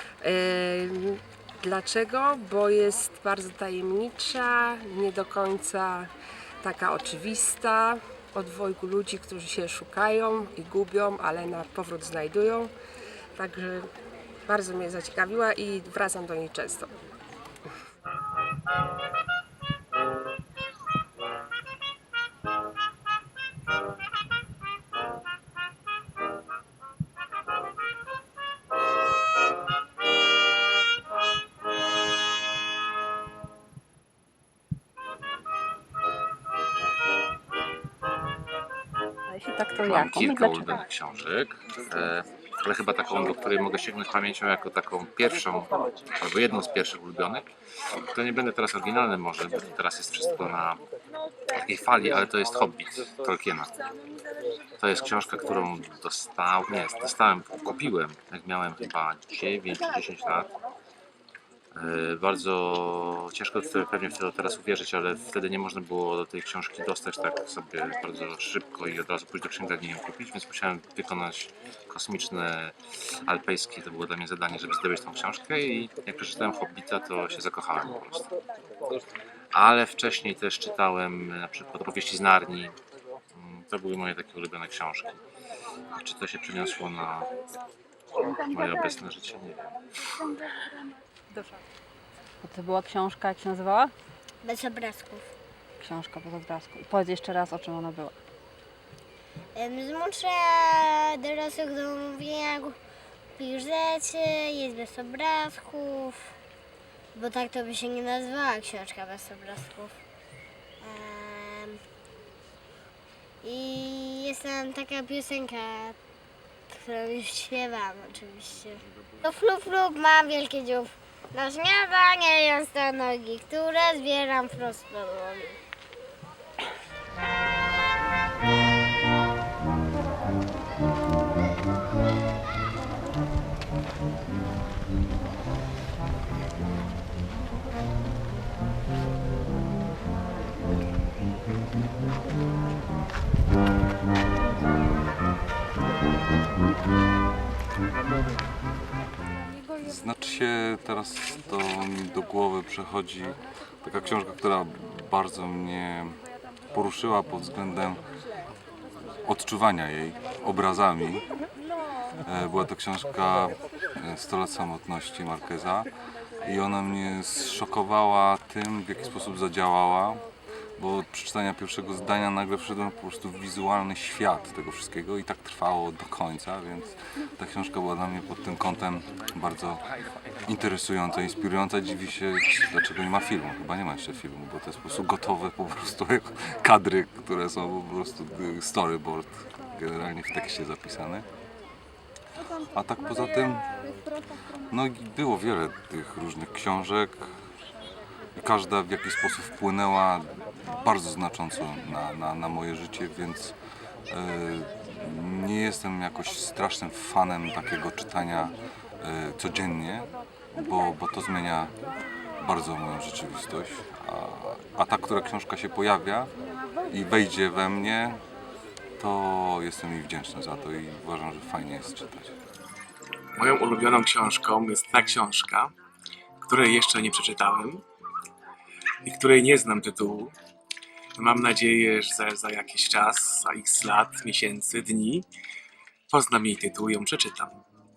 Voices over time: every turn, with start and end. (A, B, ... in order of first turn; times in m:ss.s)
0:00.2-0:06.1 A
0:06.6-0:12.7 A
0:13.4-0:13.9 A
0:14.5-0:16.9 A
0:39.3-0:40.8 B
0:39.8-0:47.5 C
0:48.1-0:50.8 C
0:51.5-0:53.7 C
0:54.8-1:00.5 C
1:01.8-1:18.3 C
1:19.5-1:22.8 C
1:23.4-1:25.2 C
1:26.0-1:27.3 C
1:28.2-1:29.7 C
1:32.4-1:33.9 B
1:34.4-1:35.2 D
1:35.8-1:38.2 B
1:39.6-1:42.8 D
1:43.4-1:46.3 D
1:47.2-1:49.9 D
1:50.8-1:51.8 D
1:53.4-1:56.0 D
1:56.7-2:05.6 D
2:29.8-2:36.2 E
2:36.7-2:38.0 E
2:39.2-2:41.2 E
2:42.2-2:45.9 E
2:46.4-2:50.2 E
2:50.8-2:59.8 E
3:00.4-3:11.2 E
3:12.7-3:13.7 E
3:14.7-3:17.3 E
3:18.4-3:23.6 E
3:24.1-3:31.7 E
3:32.4-3:36.3 E
3:36.9-3:38.2 E
3:39.0-3:42.4 E
3:43.4-3:45.7 F
3:46.4-3:47.8 F
3:49.0-3:50.3 F
3:51.2-3:55.2 F
3:56.1-3:57.5 F